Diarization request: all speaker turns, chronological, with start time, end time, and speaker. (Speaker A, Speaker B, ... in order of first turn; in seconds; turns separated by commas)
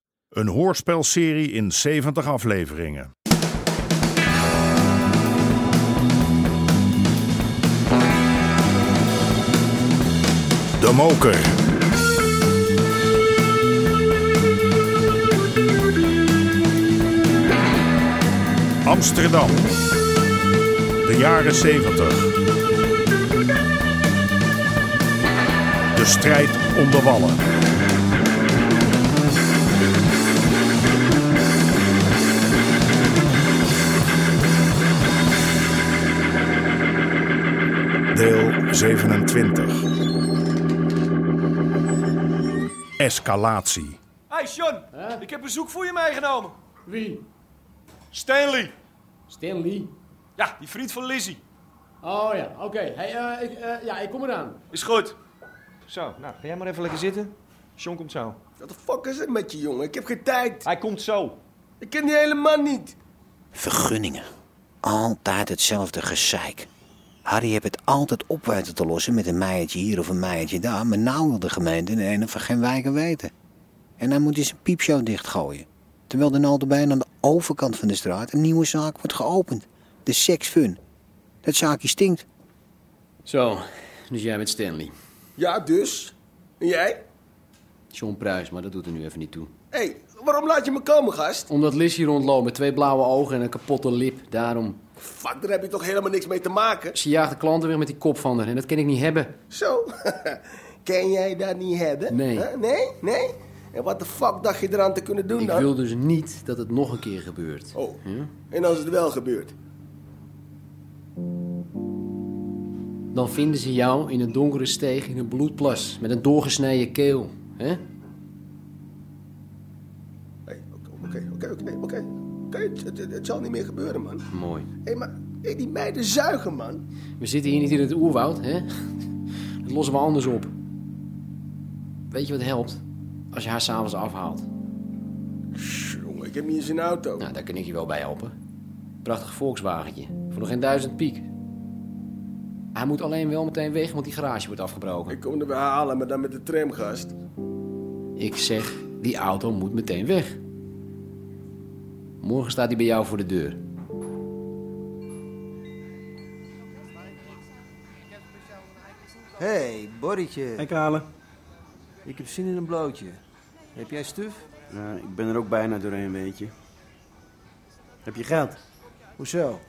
Speaker A: 0.3-3.1, Speaker A: 10.8-11.5, Speaker A: 18.9-19.6, Speaker A: 21.1-22.3, Speaker A: 26.0-27.4, Speaker A: 38.1-39.8, Speaker A: 43.0-44.0, Speaker B: 44.3-46.5, Speaker C: 44.9-45.2, Speaker C: 46.9-47.2, Speaker B: 48.2-48.7, Speaker C: 49.3-49.9, Speaker B: 50.4-51.4, Speaker C: 52.0-54.6, Speaker B: 54.7-55.1, Speaker B: 55.9-58.4, Speaker D: 58.6-61.2, Speaker D: 61.8-63.0, Speaker E: 63.5-64.3, Speaker E: 64.8-66.7, Speaker E: 67.3-73.3, Speaker E: 74.0-80.8, Speaker E: 81.4-82.2, Speaker C: 83.2-84.9, Speaker D: 85.4-87.0, Speaker C: 87.9-89.5, Speaker D: 89.7-91.5, Speaker C: 91.5-94.8, Speaker D: 95.0-97.0, Speaker C: 96.9-99.4, Speaker D: 99.5-105.7, Speaker C: 102.1-102.5, Speaker C: 105.4-108.3, Speaker D: 108.5-109.5, Speaker C: 113.1-117.8, Speaker D: 120.5-124.2, Speaker C: 124.3-124.7, Speaker D: 124.8-126.8, Speaker C: 127.2-128.7, Speaker C: 129.6-130.5, Speaker C: 132.1-134.5, Speaker D: 135.6-137.2, Speaker C: 137.2-138.3, Speaker C: 139.0-141.3, Speaker C: 142.8-145.2, Speaker D: 145.1-147.2, Speaker C: 148.2-150.4, Speaker C: 152.2-153.6, Speaker F: 159.4-160.6, Speaker G: 160.6-161.1, Speaker F: 162.1-163.2, Speaker F: 163.8-164.3, Speaker G: 164.7-166.5, Speaker G: 168.1-168.6